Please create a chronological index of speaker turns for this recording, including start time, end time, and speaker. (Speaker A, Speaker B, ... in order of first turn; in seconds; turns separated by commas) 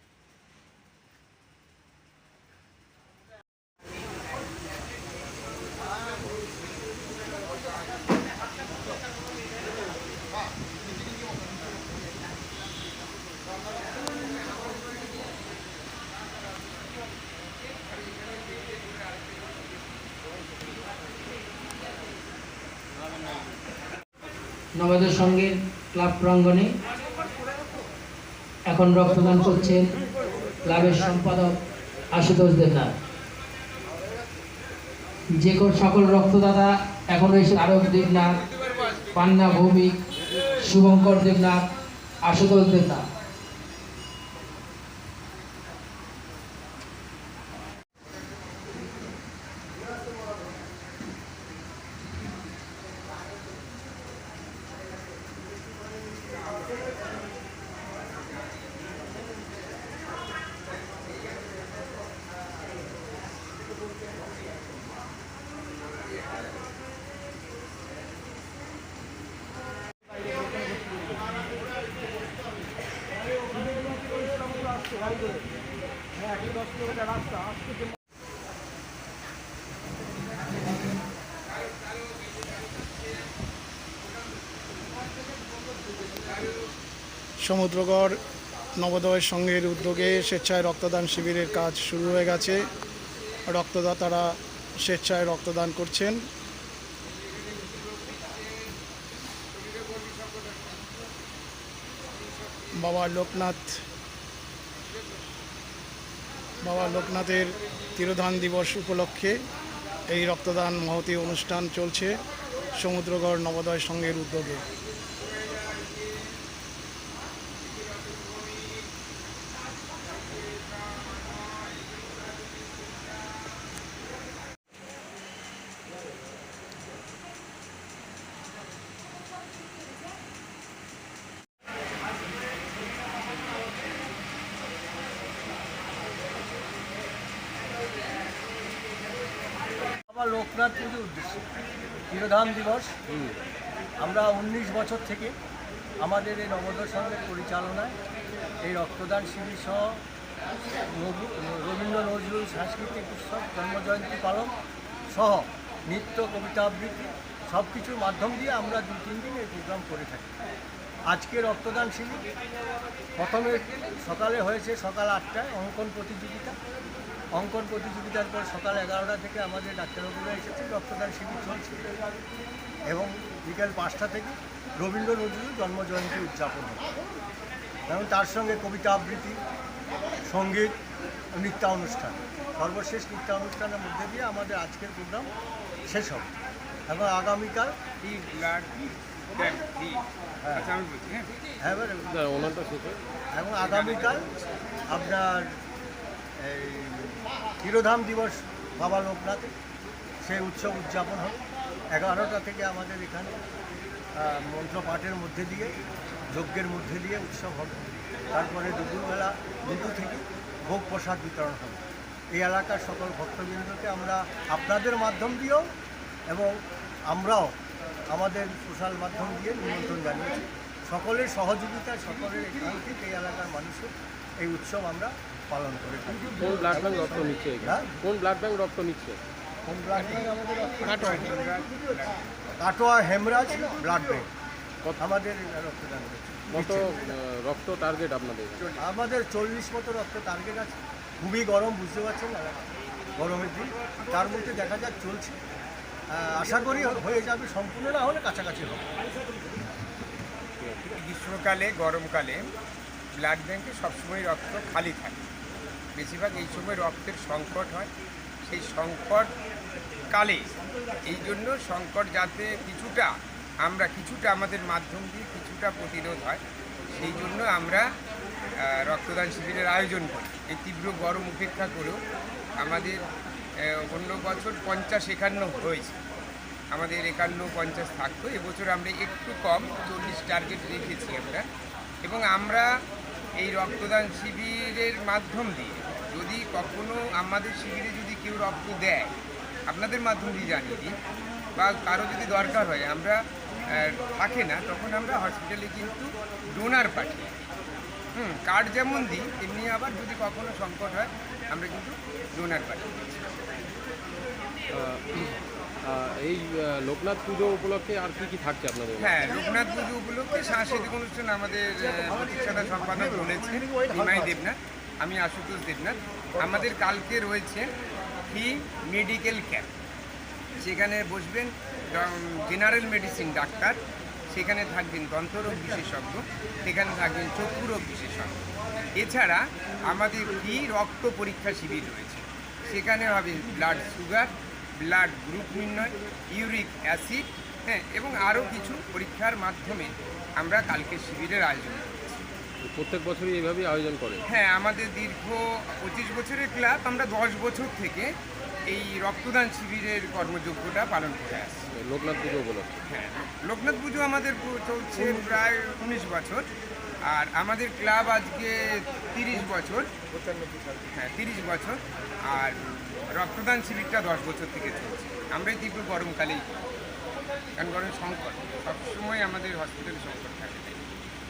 Speaker A: 24.8-26.7, Speaker A: 28.7-29.9, Speaker A: 30.6-31.6, Speaker A: 32.1-33.0, Speaker A: 35.4-38.4, Speaker A: 39.1-39.9, Speaker A: 40.6-41.6, Speaker A: 42.3-43.0, Speaker B: 87.4-88.2, Speaker B: 88.8-92.7, Speaker B: 93.5-96.2, Speaker B: 102.8-103.8, Speaker B: 106.6-109.4, Speaker B: 110.1-112.2, Speaker B: 112.8-114.6, Speaker C: 140.1-142.9, Speaker D: 143.1-143.3, Speaker C: 144.0-145.3, Speaker C: 146.0-148.0, Speaker C: 148.6-150.0, Speaker C: 150.9-154.5, Speaker C: 155.1-160.4, Speaker C: 161.1-162.2, Speaker C: 163.2-166.6, Speaker C: 167.3-171.9, Speaker C: 172.9-176.9, Speaker C: 177.9-179.4, Speaker C: 180.2-180.8, Speaker C: 181.3-185.3, Speaker C: 185.9-186.3, Speaker C: 186.9-187.8, Speaker E: 188.0-188.8, Speaker E: 189.3-191.3, Speaker C: 190.4-190.7, Speaker C: 191.6-192.1, Speaker D: 192.1-193.0, Speaker C: 193.3-194.2, Speaker E: 193.6-194.2, Speaker C: 194.9-195.6, Speaker C: 196.4-199.5, Speaker C: 200.2-201.4, Speaker C: 201.9-203.4, Speaker C: 204.2-205.7, Speaker C: 206.3-211.8, Speaker C: 212.3-215.7, Speaker C: 216.3-216.5, Speaker C: 217.1-217.6, Speaker C: 218.1-227.9, Speaker D: 226.4-229.2, Speaker C: 229.7-231.3, Speaker E: 229.9-232.2, Speaker C: 232.6-234.3, Speaker C: 235.0-237.2, Speaker D: 236.5-238.6, Speaker C: 238.8-245.4, Speaker C: 246.1-248.9, Speaker D: 250.6-250.9, Speaker E: 250.9-252.4, Speaker E: 253.1-255.3, Speaker E: 256.0-257.9, Speaker E: 258.4-259.3, Speaker E: 260.1-260.5, Speaker E: 261.1-267.9, Speaker E: 268.6-272.0, Speaker E: 272.6-273.0, Speaker E: 273.6-276.0, Speaker E: 276.7-281.5, Speaker E: 282.0-282.7, Speaker E: 283.4-289.1, Speaker E: 289.7-291.0, Speaker E: 291.6-297.4, Speaker E: 298.1-303.2, Speaker D: 304.7-309.2, Speaker E: 309.0-317.7, Speaker E: 318.3-319.7, Speaker E: 320.6-323.8, Speaker E: 324.3-342.2, Speaker D: 342.6-344.2, Speaker E: 344.3-348.1, Speaker E: 348.7-351.7, Speaker D: 351.8-352.8, Speaker E: 352.9-356.5, Speaker E: 357.0-359.9, Speaker C: 360.3-360.7, Speaker E: 360.9-366.5, Speaker E: 367.6-370.8